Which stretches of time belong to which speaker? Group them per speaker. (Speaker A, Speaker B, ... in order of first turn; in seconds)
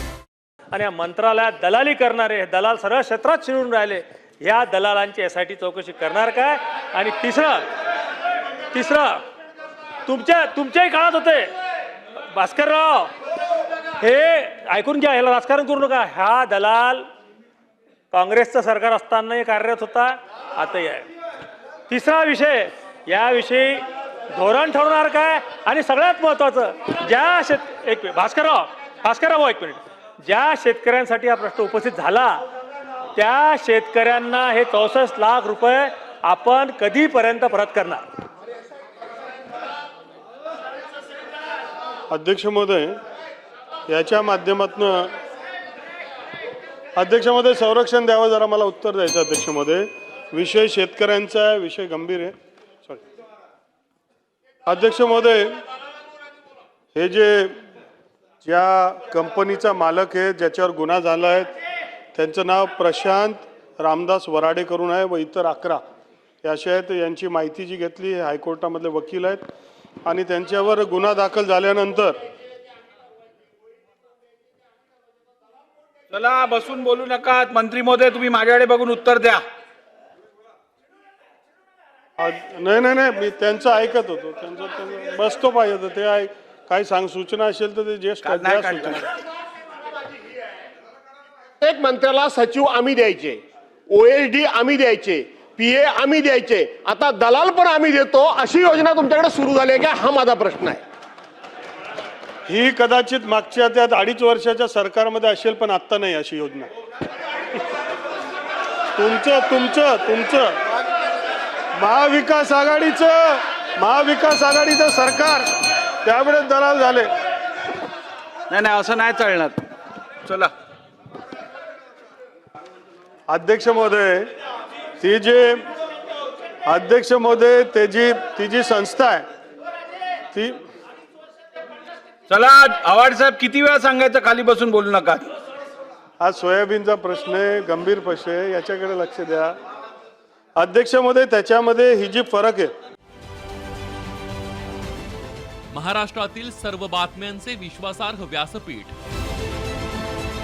Speaker A: 0.7-7.7, 8.7-9.2, 10.1-11.5, 12.3-13.1, 14.0-17.1, 18.1-21.1, 21.9-32.4, 33.1-38.0
Speaker B: 42.1-43.0, 43.9-45.1, 47.0-52.3, 54.6-55.6, 56.9-57.6, 58.4-61.5, 62.1-65.8, 66.4-69.4, 70.0-72.2, 82.2-89.0, 102.5-106.7, 108.9-110.6, 111.8-115.5, 116.0-117.1, 123.3-124.3, 125.0-125.6, 126.7-129.2, 130.3-130.6, 136.2-139.5, 140.6-142.7
Speaker C: 76.1-79.4, 88.2-89.1, 118.5-119.6, 120.2-120.5, 132.3-135.3
Speaker D: 91.6-100.8
Speaker E: 145.7-148.9